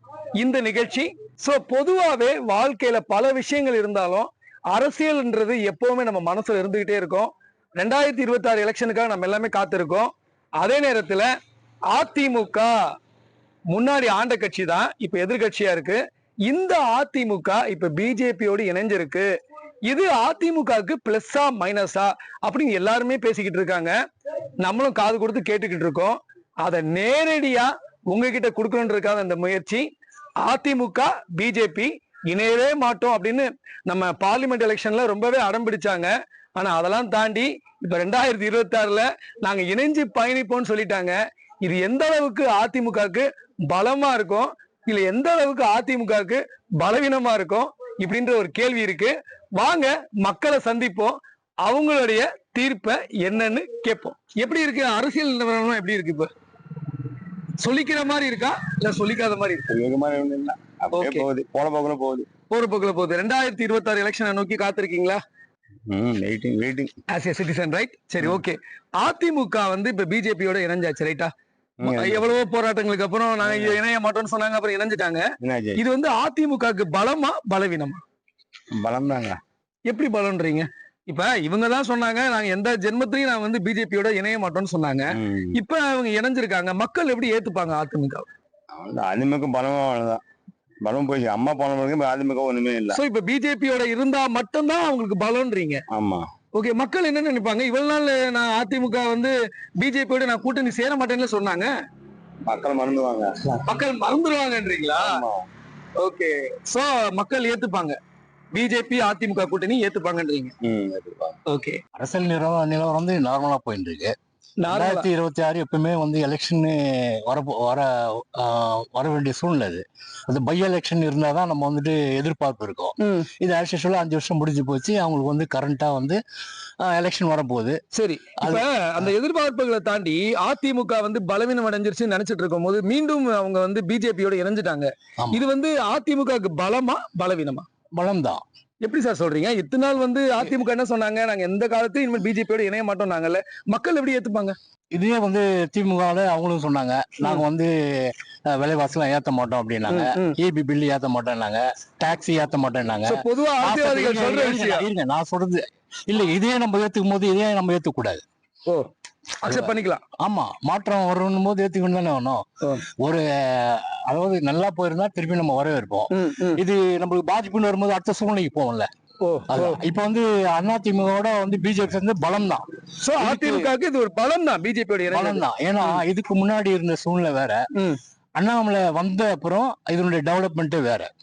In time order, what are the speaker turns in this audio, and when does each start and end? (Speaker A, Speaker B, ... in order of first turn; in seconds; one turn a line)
Speaker A: 0.4-11.3
Speaker A: 11.9-12.7
Speaker A: 13.7-19.3
Speaker A: 19.9-23.9
Speaker A: 24.6-29.8
Speaker A: 30.4-56.3
Speaker A: 57.6-59.6
Speaker B: 59.7-62.3
Speaker A: 60.9-61.3
Speaker A: 62.5-65.2
Speaker B: 65.9-66.9
Speaker A: 67.1-71.3
Speaker B: 71.8-72.3
Speaker A: 71.8-75.3
Speaker B: 73.4-73.8
Speaker B: 75.4-75.8
Speaker A: 75.8-78.0
Speaker B: 78.8-79.4
Speaker A: 79.9-88.3
Speaker B: 85.2-85.5
Speaker B: 88.8-90.2
Speaker B: 90.8-93.0
Speaker A: 92.9-95.8
Speaker B: 95.9-96.3
Speaker A: 96.5-101.7
Speaker B: 102.5-103.3
Speaker A: 103.7-105.2
Speaker B: 105.0-105.5
Speaker A: 106.0-108.0
Speaker A: 108.5-110.5
Speaker B: 110.7-111.3
Speaker A: 111.5-111.8
Speaker C: 112.0-114.1
Speaker A: 114.6-115.1
Speaker C: 114.7-126.2
Speaker A: 123.0-123.3
Speaker C: 126.8-127.8
Speaker A: 127.9-137.7
Speaker C: 128.4-129.1
Speaker C: 137.9-138.4
Speaker A: 138.8-144.6
Speaker C: 144.9-158.2
Speaker A: 149.9-150.4
Speaker A: 153.1-154.9
Speaker A: 159.4-160.0
Speaker C: 159.5-162.4
Speaker C: 163.0-168.9
Speaker A: 166.1-166.6
Speaker A: 169.2-169.8
Speaker C: 169.5-173.7
Speaker A: 173.0-176.0
Speaker C: 175.1-177.6
Speaker C: 178.4-181.1